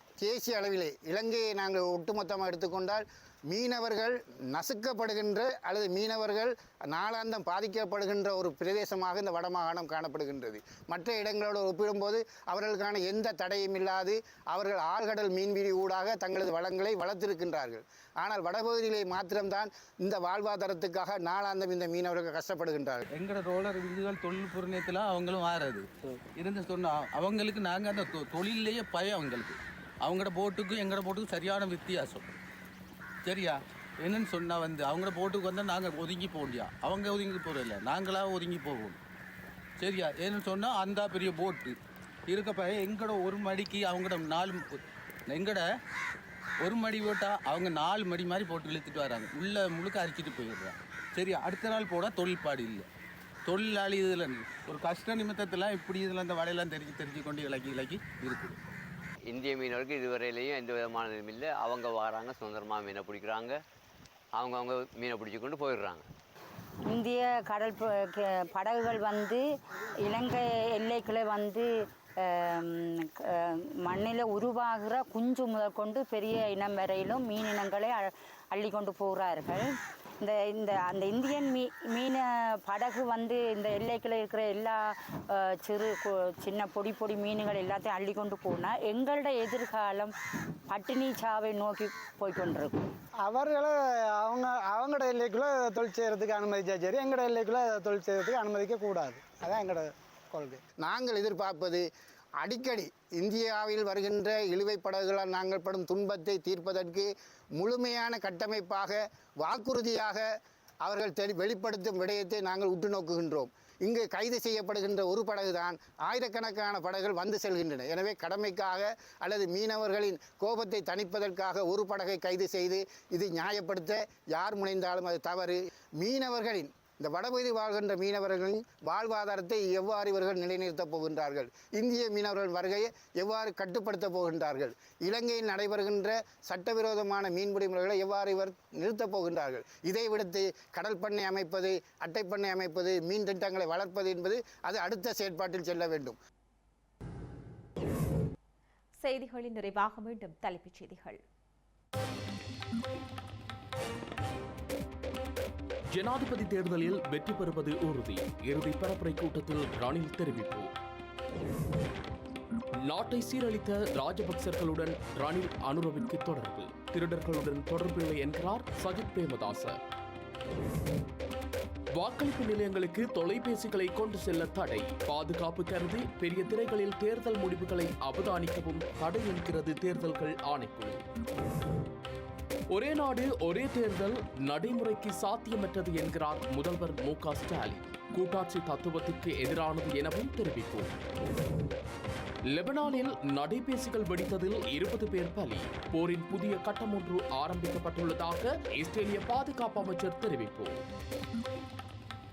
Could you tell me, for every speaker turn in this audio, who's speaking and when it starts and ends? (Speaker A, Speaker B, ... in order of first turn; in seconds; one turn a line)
Speaker A: 0.2-23.1
Speaker B: 23.1-32.3
Speaker B: 33.2-39.0
Speaker B: 39.8-41.8
Speaker B: 42.3-44.7
Speaker B: 45.3-45.7
Speaker B: 46.6-52.9
Speaker B: 53.5-58.6
Speaker C: 59.3-63.6
Speaker C: 64.3-66.1
Speaker D: 66.9-69.4
Speaker D: 70.1-71.7
Speaker D: 73.8-79.6
Speaker D: 80.2-84.9
Speaker D: 85.6-90.1
Speaker D: 90.7-92.8
Speaker E: 93.2-100.6
Speaker A: 100.8-101.8
Speaker A: 102.4-110.2
Speaker A: 110.8-146.2
Speaker F: 149.0-151.2
Speaker G: 155.9-160.7
Speaker G: 162.8-169.8
Speaker G: 171.9-181.0
Speaker G: 182.7-191.0
Speaker G: 192.5-200.8